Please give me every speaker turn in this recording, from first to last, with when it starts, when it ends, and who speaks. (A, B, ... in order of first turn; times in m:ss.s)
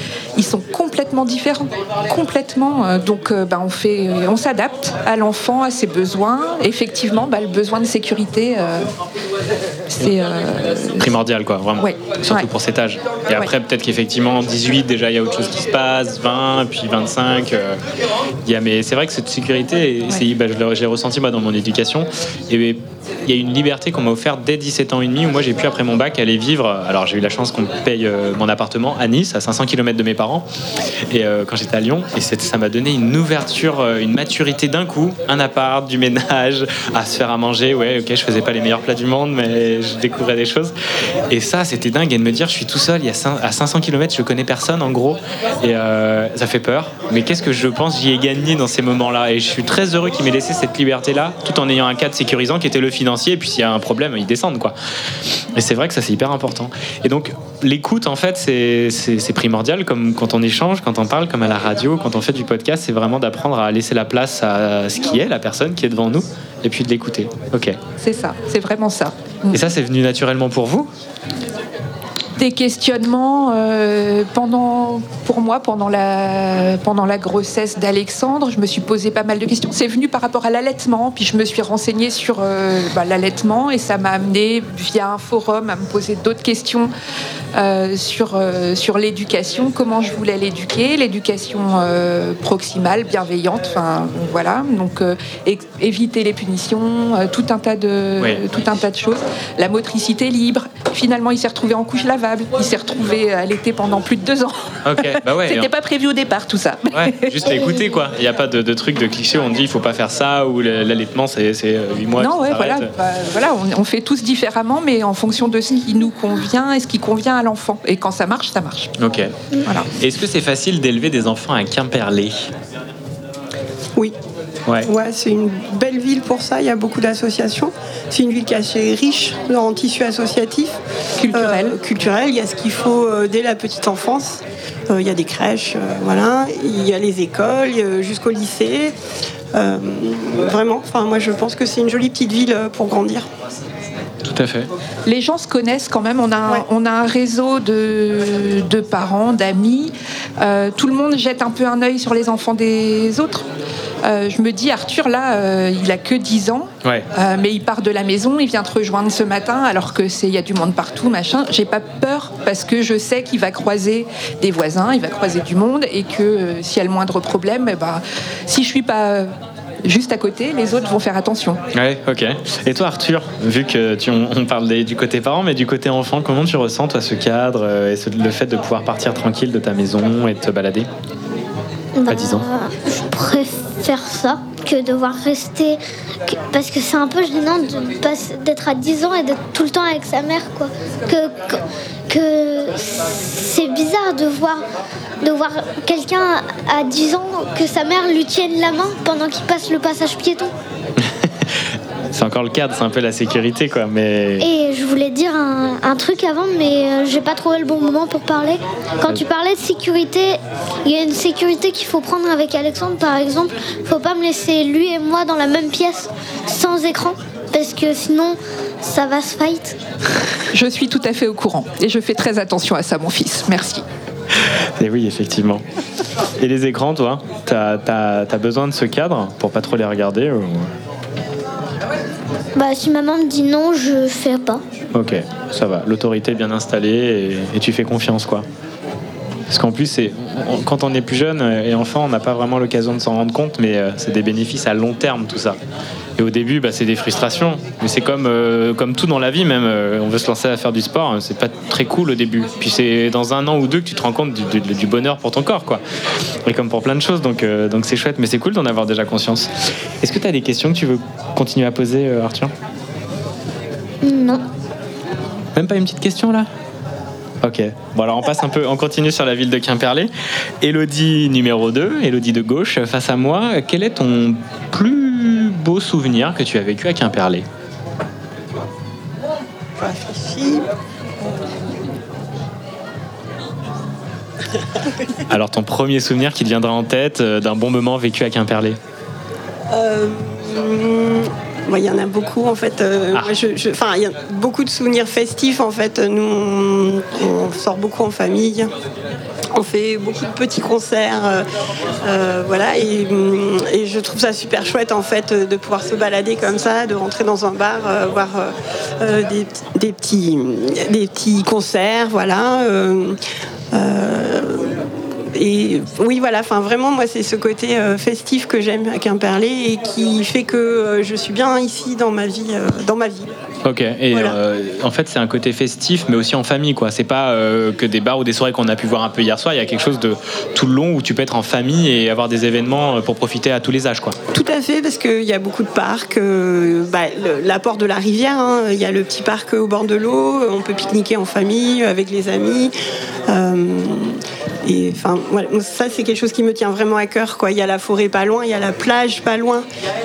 0:00.4-0:08.9 A
0:09.9-0:11.2 A
0:11.0-0:17.8 B
0:11.8-0:12.5 A
0:18.4-0:30.5 B
0:31.1-0:40.8 B
0:41.3-0:54.8 B
0:55.5-1:07.8 B
1:08.0-1:09.6 A
1:09.5-1:10.9 B
1:12.4-1:26.9 A
1:27.5-1:47.5 A
1:44.8-1:45.7 B
1:46.9-1:52.9 B
1:47.4-1:48.1 C
1:52.2-1:58.9 A
1:59.0-1:59.3 B
1:59.6-1:59.9 A
1:59.9-2:02.5 B
2:04.8-2:10.8 D
2:11.2-2:11.8 A
2:11.3-2:19.0 D
2:19.5-2:23.3 D
2:24.2-2:24.7 B
2:25.1-2:33.5 A
2:34.0-2:49.3 A
2:49.8-2:51.6 A
2:51.7-3:00.9 B
3:02.0-3:14.6 C
3:02.1-3:02.5 B
3:15.2-3:20.5 C
3:21.0-3:21.3 B
3:22.1-3:24.5 B
3:24.4-3:39.8 C
3:40.5-3:43.8 A
3:44.8-3:45.6 B
3:46.4-3:50.7 B
3:52.6-3:54.6 C
3:54.9-3:58.5 B
3:59.5-4:05.6 B
4:06.2-4:15.8 B
4:16.4-4:19.5 B
4:20.0-4:22.5 B
4:24.0-4:24.4 C
4:25.6-4:26.5 B
4:27.4-4:37.5 B
4:39.8-4:40.7 D
4:45.3-4:48.8 B
4:49.7-4:58.7 D
4:59.5-5:01.5 D
5:02.0-5:13.2 D
5:13.7-5:23.3 D
5:23.6-5:34.2 B
5:24.1-5:24.4 D
5:34.3-5:42.7 D
5:43.3-5:49.7 D